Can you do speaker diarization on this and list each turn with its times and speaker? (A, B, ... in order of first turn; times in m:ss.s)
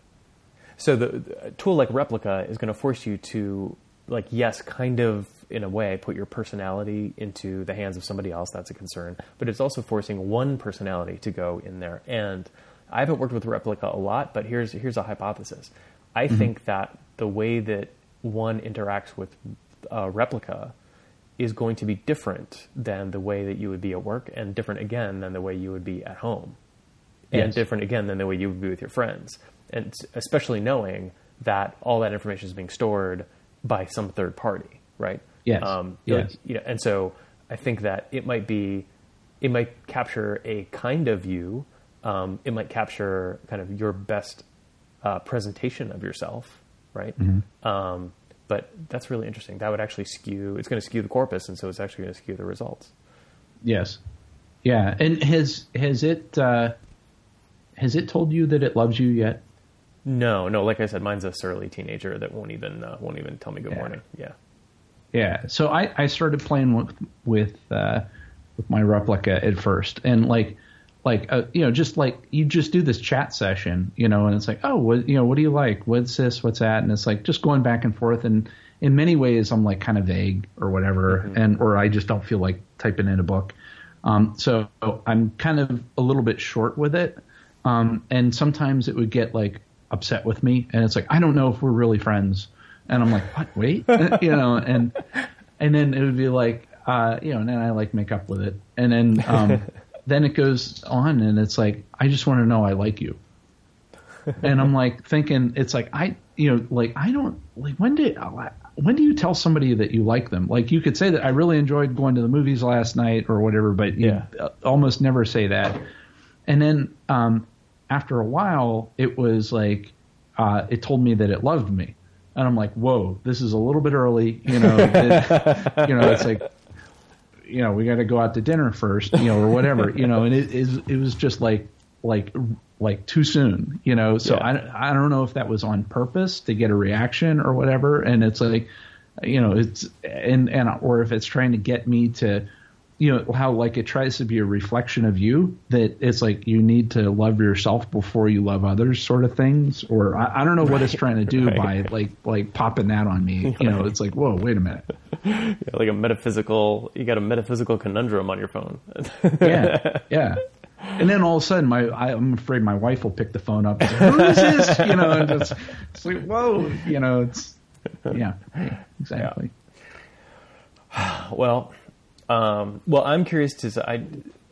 0:00.8-0:20.7 A
0:21.4-0:26.6 A
0:27.3-0:38.9 A
0:27.3-0:27.6 B
0:35.4-0:36.3 B
0:39.4-0:44.4 A
0:45.0-0:52.9 A
0:47.2-0:47.4 B
0:53.6-0:54.0 B
0:54.6-0:56.7 B
0:57.8-0:59.4 B
1:00.0-1:04.3 A
1:05.1-1:08.0 B
1:08.6-1:35.0 B
1:21.1-1:21.4 A
1:35.6-1:43.2 B
1:44.4-1:55.8 B
1:54.0-1:54.2 A
1:56.5-2:06.4 B
2:04.5-2:06.3 A
2:07.4-2:18.7 B
2:19.2-2:22.4 B
2:23.0-2:34.9 B
2:30.6-2:31.9 A
2:33.4-2:33.9 A
2:35.1-2:40.1 A
2:39.4-2:40.4 B
2:41.0-2:49.5 B
2:43.8-2:45.5 A
2:50.9-2:51.7 A
2:52.3-2:54.3 A